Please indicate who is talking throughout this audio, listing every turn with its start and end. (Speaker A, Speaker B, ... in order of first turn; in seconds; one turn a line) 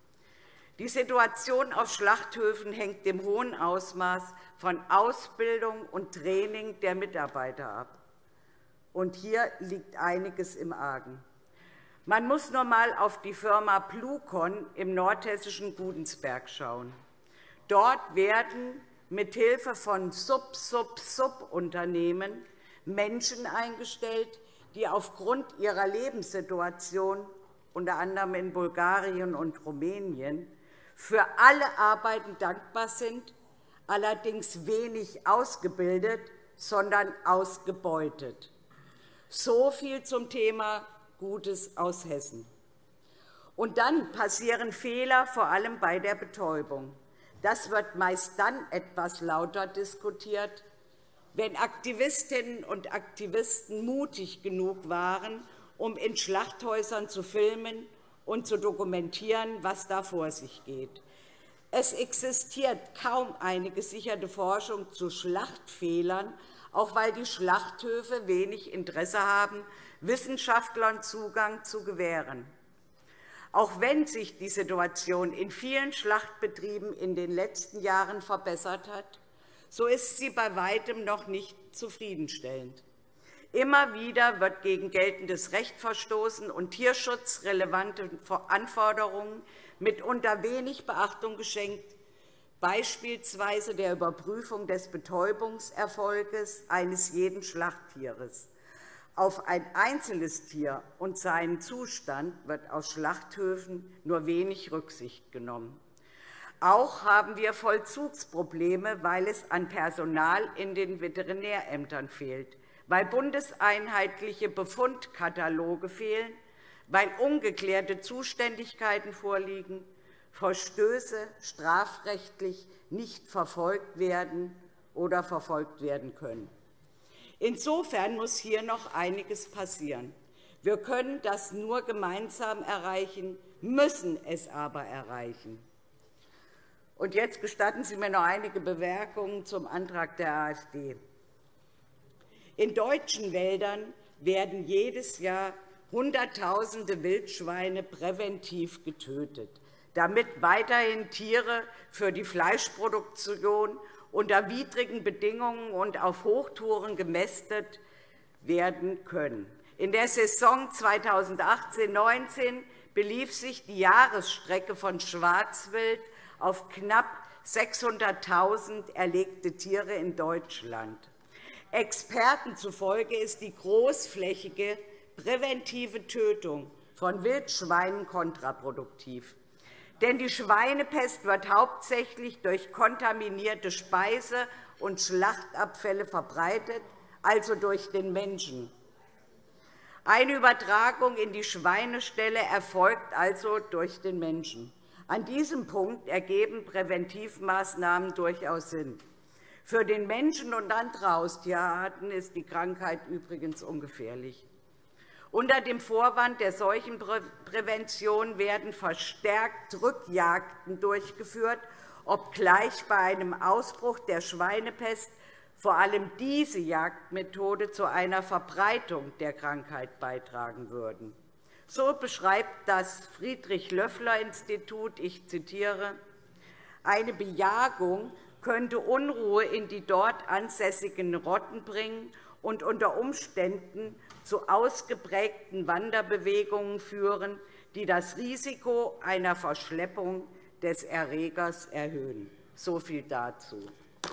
Speaker A: 0.8-8.0
Speaker A: 8.9-11.2
Speaker A: 12.1-17.0
Speaker A: 17.7-33.3
Speaker A: 33.9-38.5
Speaker A: 39.3-42.5
Speaker A: 43.6-50.6
Speaker A: 51.3-61.0
Speaker A: 61.7-72.5
Speaker A: 73.5-79.2
Speaker A: 79.7-82.8
Speaker A: 83.5-92.0
Speaker A: 92.6-98.5
Speaker A: 99.2-105.8
Speaker A: 106.6-116.4
Speaker A: 116.9-126.5
Speaker A: 127.4-135.6
Speaker A: 137.0-141.0
Speaker A: 142.6-157.8
Speaker A: 158.4-171.1
Speaker A: 171.7-179.3
Speaker A: 180.0-188.7
Speaker A: 190.0-199.0
Speaker A: 199.6-204.4
Speaker A: 205.3-221.1
Speaker A: 221.7-226.0
Speaker A: 226.8-243.7